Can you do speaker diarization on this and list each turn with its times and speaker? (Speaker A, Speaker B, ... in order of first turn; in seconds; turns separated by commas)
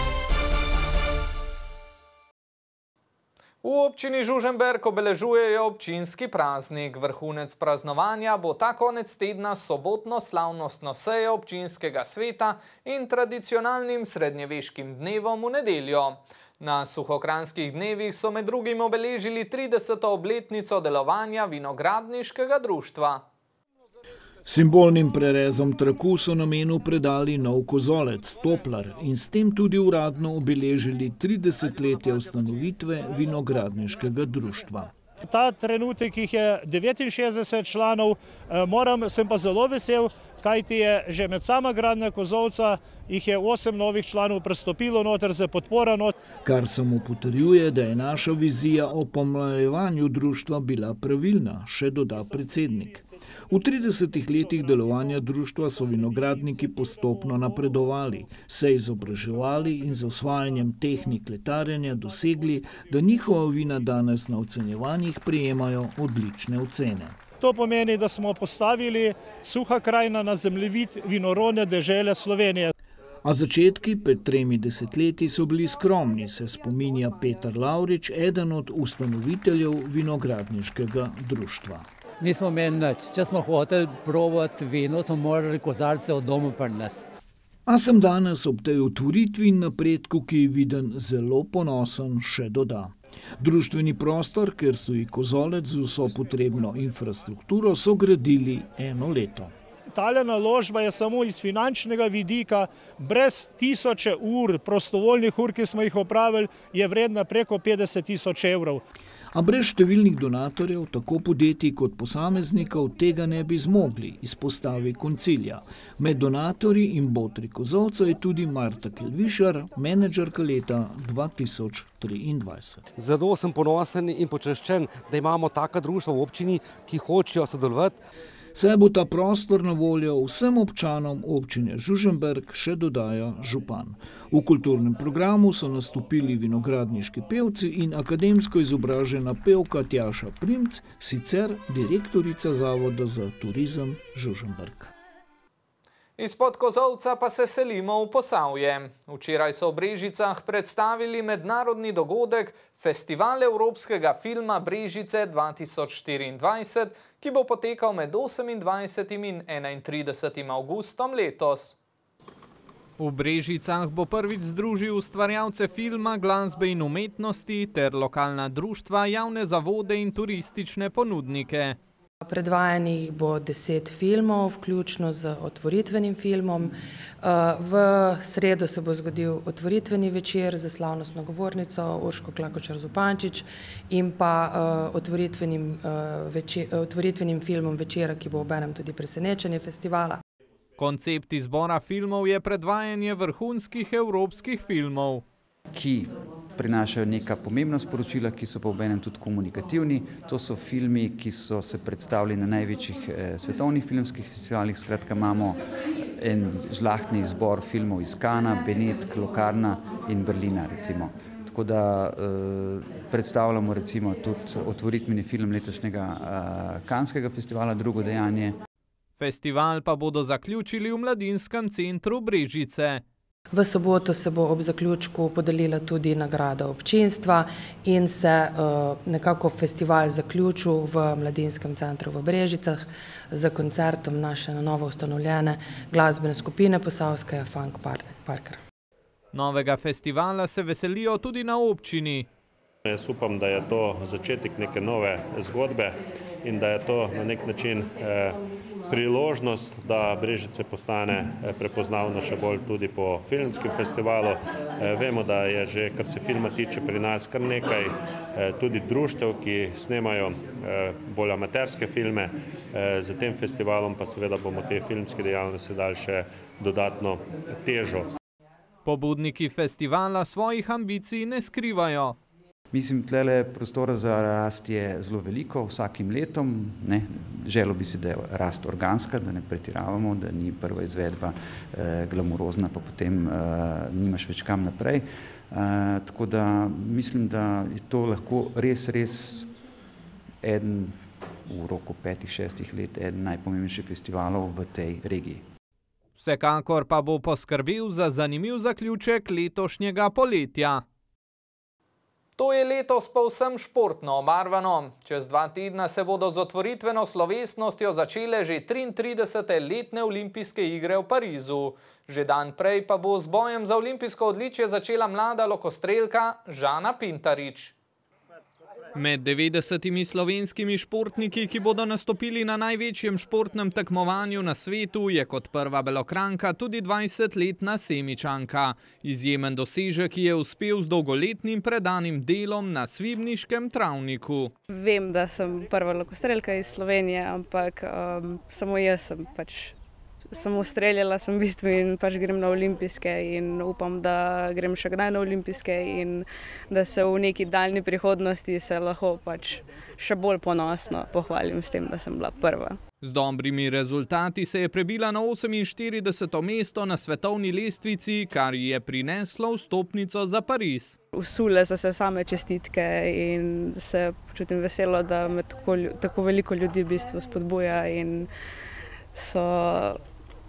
Speaker A: 3.6-23.2, Speaker B: 24.5-34.9, Speaker C: 35.2-46.1, Speaker B: 46.4-67.2, Speaker C: 67.4-72.7, Speaker B: 73.2-81.9, Speaker D: 82.2-87.0, Speaker B: 87.7-99.5, Speaker C: 99.9-108.8, Speaker B: 109.3-122.9, Speaker E: 123.0-127.9, Speaker B: 128.6-144.9, Speaker A: 146.2-161.8, Speaker A: 163.0-171.8, Speaker F: 172.2-190.2, Speaker A: 190.8-195.2, Speaker G: 195.7-205.6, Speaker G: 206.2-218.6, Speaker A: 219.2-223.0, Speaker F: 223.5-238.6, Speaker A: 239.3-242.3, Speaker H: 242.8-268.1, Speaker A: 268.9-272.2, Speaker G: 272.7-289.5, Speaker G: 290.4-295.4, Speaker A: 296.2-300.8, Speaker A: 302.4-317.7, Speaker A: 318.9-334.5, Speaker I: 334.7-339.8, Speaker I: 340.3-352.8, Speaker A: 353.0-361.0, Speaker I: 361.1-368.3, Speaker I: 369.1-370.0